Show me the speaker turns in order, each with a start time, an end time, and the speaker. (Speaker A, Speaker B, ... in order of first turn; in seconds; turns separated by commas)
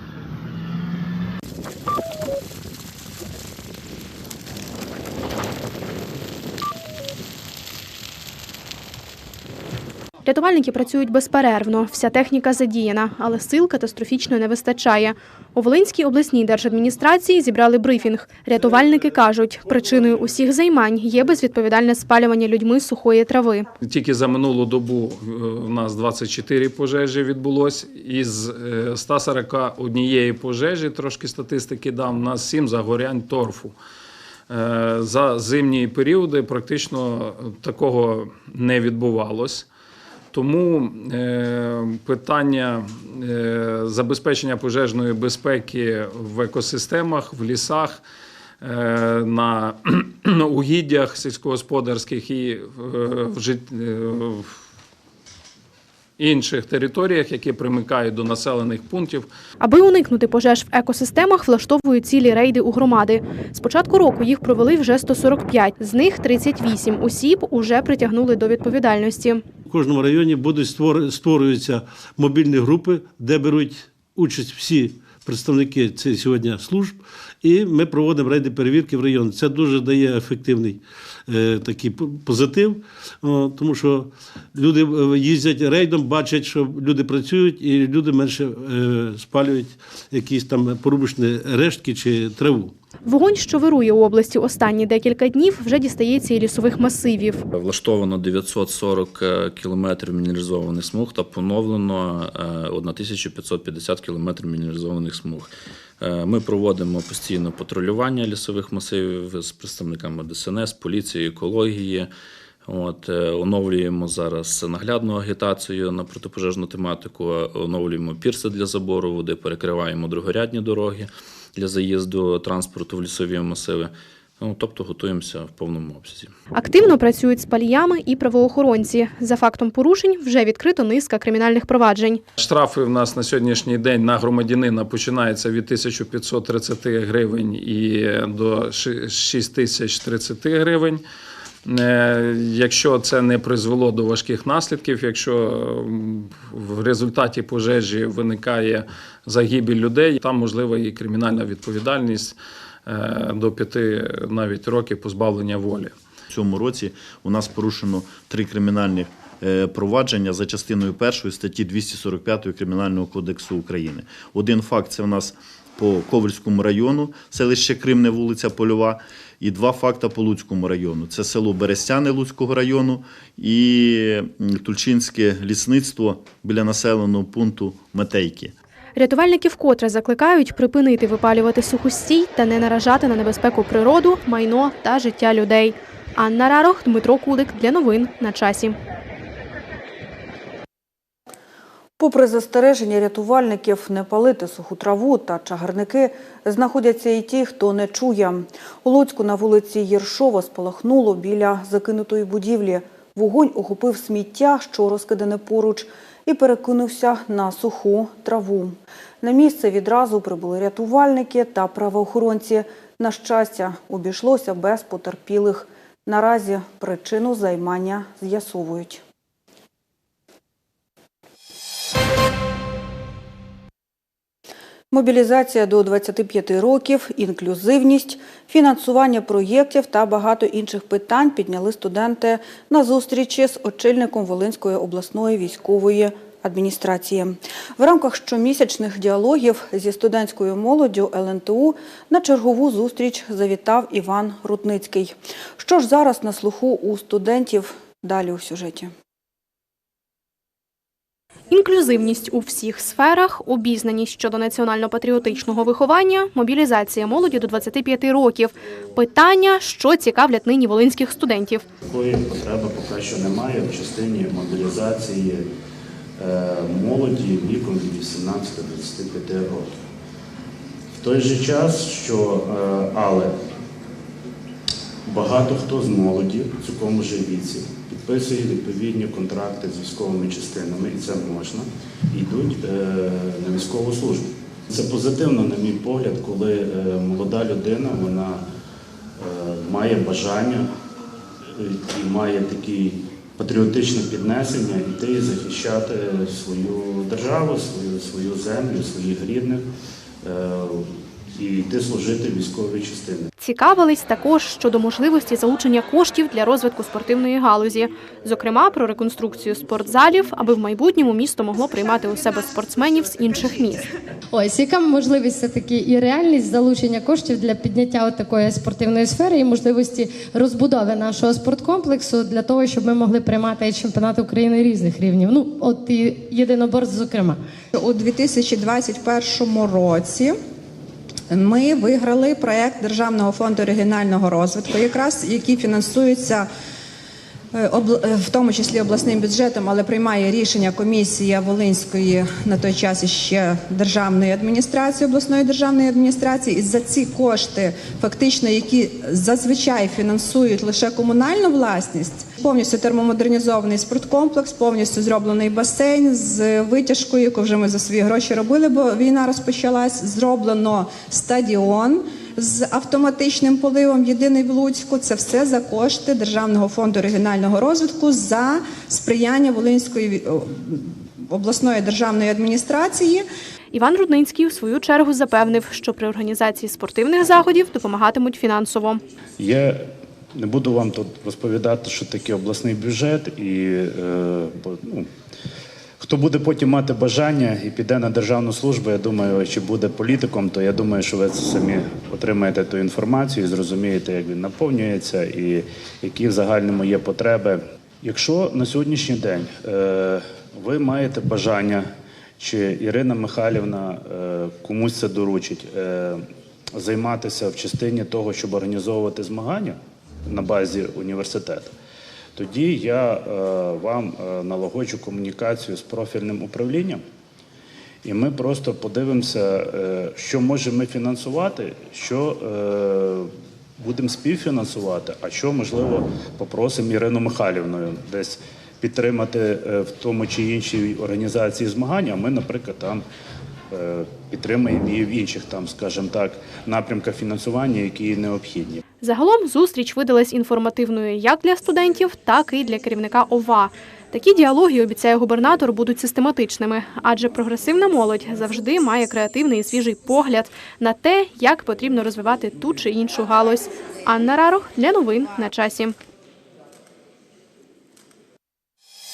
Speaker A: 10.2-23.7, Speaker B: 23.8-33.8, Speaker B: 34.5-39.7, Speaker B: 40.3-48.0, Speaker B: 48.6-54.6, Speaker B: 56.2-59.3, Speaker A: 59.6-69.5, Speaker C: 69.7-92.8, Speaker A: 93.1-97.4, Speaker D: 97.5-112.1, Speaker D: 112.7-126.3, Speaker A: 126.5-132.2, Speaker B: 132.4-141.0, Speaker B: 141.7-155.9, Speaker E: 156.3-178.5, Speaker A: 179.0-188.8, Speaker F: 192.0-219.0, Speaker F: 224.9-248.9, Speaker A: 251.5-261.6, Speaker G: 261.9-265.5, Speaker G: 266.2-269.8, Speaker G: 271.0-273.4, Speaker G: 275.1-288.4, Speaker G: 289.2-290.7, Speaker G: 291.5-299.7, Speaker G: 300.2-303.3, Speaker A: 303.4-313.9, Speaker H: 314.3-327.4, Speaker I: 327.7-330.4, Speaker I: 331.3-336.5, Speaker I: 337.5-373.2, Speaker A: 373.7-379.0, Speaker G: 379.4-385.1, Speaker G: 386.0-411.7, Speaker G: 412.4-417.0, Speaker G: 418.0-433.1, Speaker G: 433.7-438.8, Speaker A: 439.0-456.0